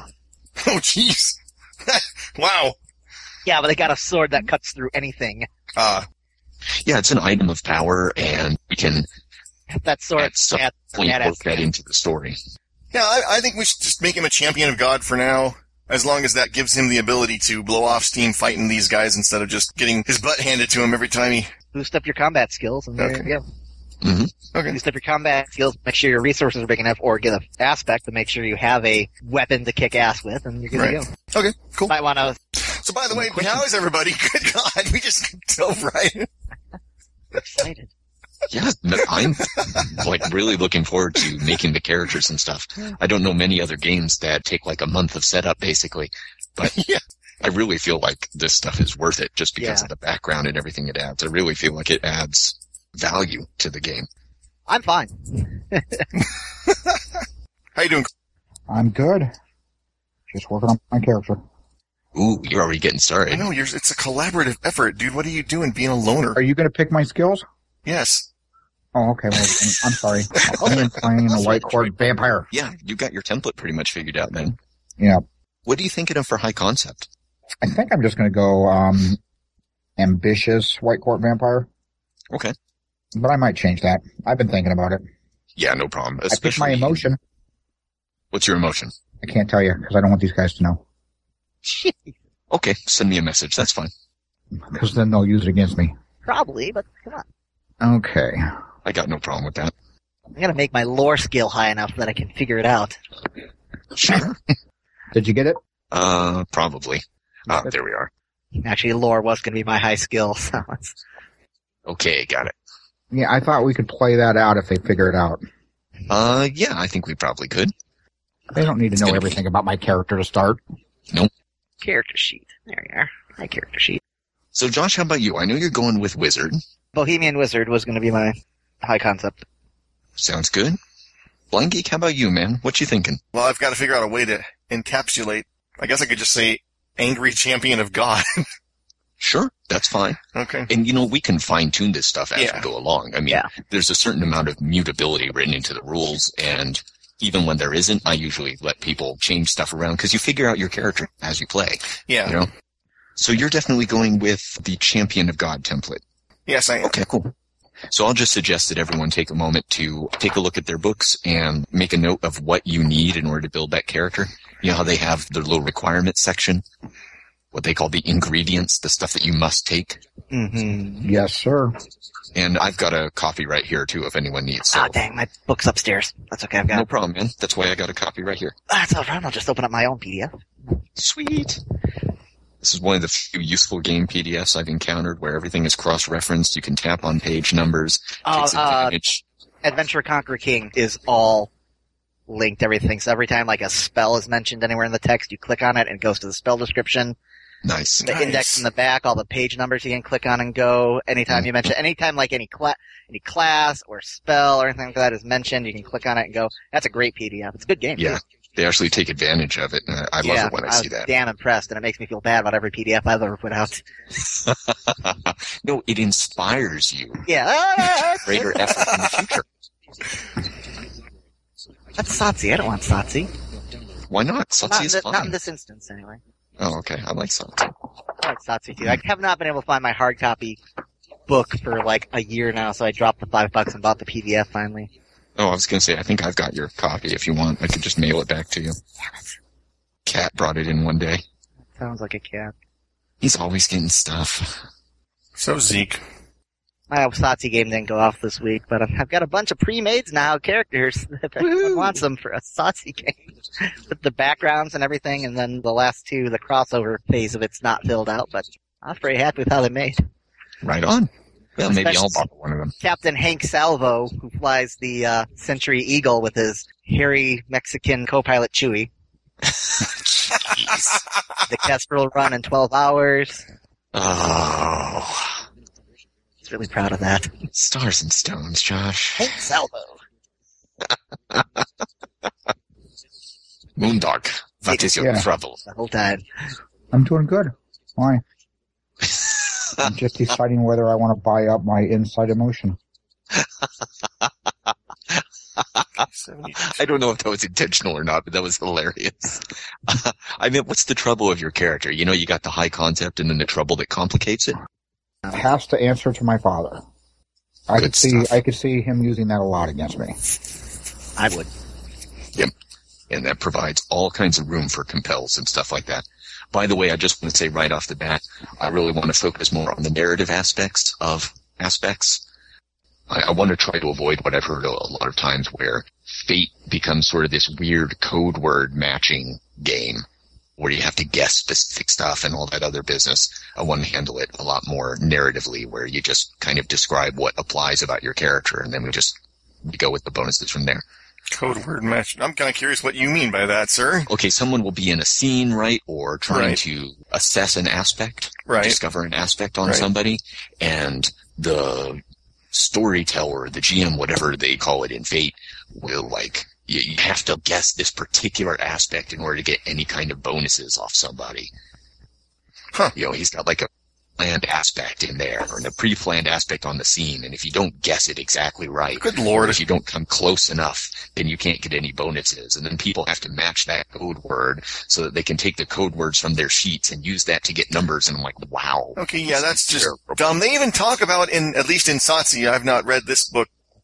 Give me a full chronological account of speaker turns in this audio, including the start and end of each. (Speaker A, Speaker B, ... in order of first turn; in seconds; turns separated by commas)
Speaker A: 0.6-2.8, Speaker B: 3.5-5.5, Speaker A: 5.8-6.1, Speaker C: 6.8-9.1, Speaker B: 9.7-11.7, Speaker C: 10.2-12.4, Speaker A: 12.9-21.5, Speaker B: 21.7-23.4, Speaker A: 23.0-23.3, Speaker C: 24.0-24.3, Speaker A: 24.5-24.8, Speaker B: 24.7-31.1, Speaker A: 30.7-31.9, Speaker B: 31.9-32.4, Speaker A: 32.6-36.3, Speaker C: 33.1-33.7, Speaker B: 37.4-37.9, Speaker C: 38.5-46.7, Speaker A: 39.4-40.1, Speaker A: 46.6-47.0, Speaker C: 47.4-54.1, Speaker B: 49.6-49.9, Speaker B: 54.7-56.1, Speaker A: 56.2-57.0, Speaker A: 57.8-58.1, Speaker D: 58.7-59.3, Speaker D: 60.3-61.4, Speaker C: 62.1-63.5, Speaker A: 63.3-66.4, Speaker D: 66.4-67.5, Speaker A: 67.8-68.3, Speaker D: 69.0-72.5, Speaker C: 70.5-71.9, Speaker C: 72.5-74.6, Speaker D: 75.0-75.3, Speaker C: 75.7-77.1, Speaker D: 77.6-79.2, Speaker D: 80.0-81.7, Speaker D: 83.2-85.0, Speaker C: 85.6-87.1, Speaker D: 86.3-87.2, Speaker C: 88.3-88.9, Speaker D: 89.2-90.8, Speaker B: 91.7-92.1, Speaker C: 92.5-93.9, Speaker D: 94.7-95.9, Speaker B: 96.2-97.2, Speaker D: 97.8-98.5, Speaker C: 98.8-99.7, Speaker B: 100.4-103.0, Speaker C: 103.9-104.4, Speaker D: 105.1-105.6, Speaker C: 105.9-108.1, Speaker B: 108.6-111.0, Speaker C: 111.9-112.5, Speaker D: 113.1-115.4, Speaker C: 116.1-117.7, Speaker D: 118.5-120.6, Speaker C: 119.0-119.4, Speaker B: 121.8-124.0, Speaker C: 124.5-126.6, Speaker B: 127.0-129.4, Speaker C: 130.2-130.8, Speaker C: 131.5-133.2, Speaker A: 133.3-138.5, Speaker C: 139.2-152.5, Speaker A: 140.3-140.7, Speaker A: 142.4-142.7, Speaker A: 152.1-152.4, Speaker C: 153.2-156.0, Speaker A: 156.5-156.9, Speaker C: 156.8-157.3, Speaker C: 157.9-166.6, Speaker C: 167.5-170.0, Speaker B: 170.3-171.1, Speaker D: 171.0-171.8, Speaker C: 172.3-174.9, Speaker B: 174.7-176.9, Speaker C: 176.7-178.6, Speaker B: 178.7-180.4, Speaker C: 181.0-181.6, Speaker C: 182.6-189.2, Speaker B: 188.2-188.9, Speaker B: 189.6-191.5, Speaker B: 192.3-197.2, Speaker C: 197.6-198.6, Speaker B: 198.1-208.2, Speaker C: 208.0-211.1, Speaker B: 210.2-213.8, Speaker C: 214.5-217.2, Speaker B: 217.3-218.7, Speaker C: 217.8-219.4, Speaker B: 222.0-223.3, Speaker C: 224.1-225.3, Speaker B: 224.7-226.2, Speaker C: 226.6-227.7, Speaker B: 228.2-230.6, Speaker B: 231.3-234.9, Speaker C: 235.4-238.8, Speaker C: 240.1-241.2, Speaker B: 241.8-242.5, Speaker C: 243.2-244.6, Speaker A: 245.4-246.0, Speaker B: 246.9-260.0, Speaker C: 251.4-252.0, Speaker C: 260.6-262.8, Speaker B: 261.6-262.2, Speaker B: 262.8-268.9, Speaker C: 269.5-271.0, Speaker B: 271.5-273.4, Speaker C: 273.9-275.4, Speaker B: 276.4-277.3, Speaker C: 277.5-279.3, Speaker B: 279.2-280.0, Speaker C: 281.3-281.6, Speaker C: 283.8-285.6, Speaker B: 284.7-285.0, Speaker D: 285.0-285.3, Speaker B: 285.6-286.2, Speaker D: 286.9-288.2, Speaker C: 289.0-289.9, Speaker D: 289.8-292.8, Speaker C: 293.3-294.3, Speaker C: 295.1-296.1, Speaker A: 296.1-296.8, Speaker C: 296.6-304.6, Speaker D: 305.3-306.8, Speaker D: 307.7-310.2, Speaker C: 307.8-308.3, Speaker B: 311.2-311.5, Speaker C: 313.1-322.2, Speaker C: 323.1-330.1, Speaker C: 330.6-340.8, Speaker A: 341.3-344.1, Speaker C: 344.1-352.0, Speaker A: 346.3-346.6, Speaker A: 348.5-348.8, Speaker C: 352.5-361.5, Speaker C: 362.9-380.4, Speaker A: 369.0-369.6, Speaker A: 379.0-383.5